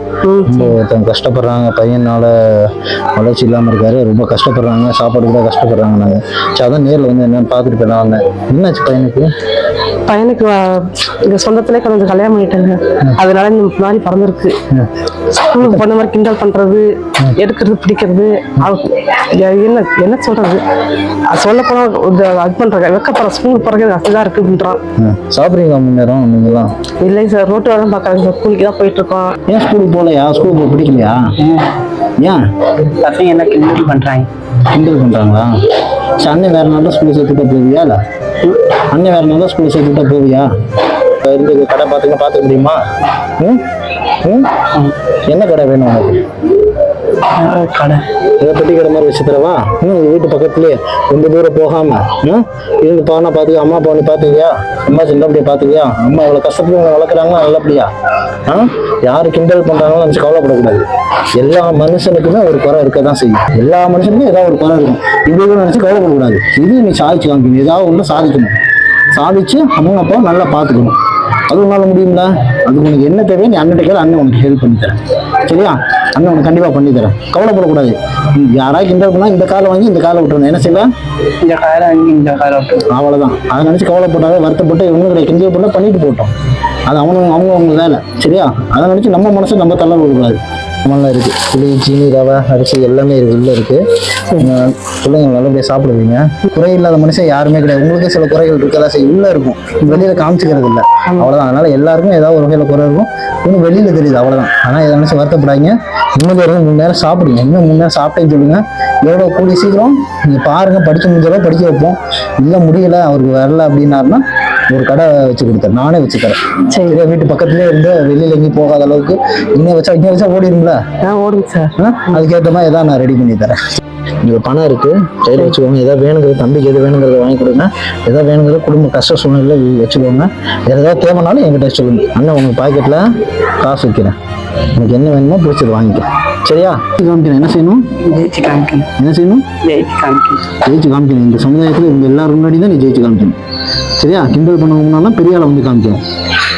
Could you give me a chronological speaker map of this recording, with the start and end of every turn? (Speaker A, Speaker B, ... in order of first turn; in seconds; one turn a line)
Speaker A: 0.2-0.8
Speaker B: 0.4-9.3
Speaker A: 10.1-14.6
Speaker B: 14.7-15.0
Speaker A: 15.3-24.8
Speaker B: 25.0-26.7
Speaker A: 27.0-29.4
Speaker B: 29.5-31.3
Speaker C: 31.4-31.8
Speaker C: 32.8-34.3
Speaker B: 34.6-35.6
Speaker B: 36.2-46.2
Speaker C: 47.2-48.1
Speaker B: 48.4-57.9
Speaker B: 58.5-68.6
Speaker B: 69.1-71.0
Speaker B: 71.5-80.9
Speaker C: 81.4-82.9
Speaker B: 82.9-86.3
Speaker B: 86.9-120.8
Speaker A: 116.7-117.0
Speaker A: 121.0-121.8
Speaker B: 121.8-123.6
Speaker B: 124.2-137.9
Speaker C: 138.0-138.9
Speaker B: 139.0-139.5
Speaker C: 139.6-140.5
Speaker B: 140.6-143.4
Speaker B: 144.0-146.0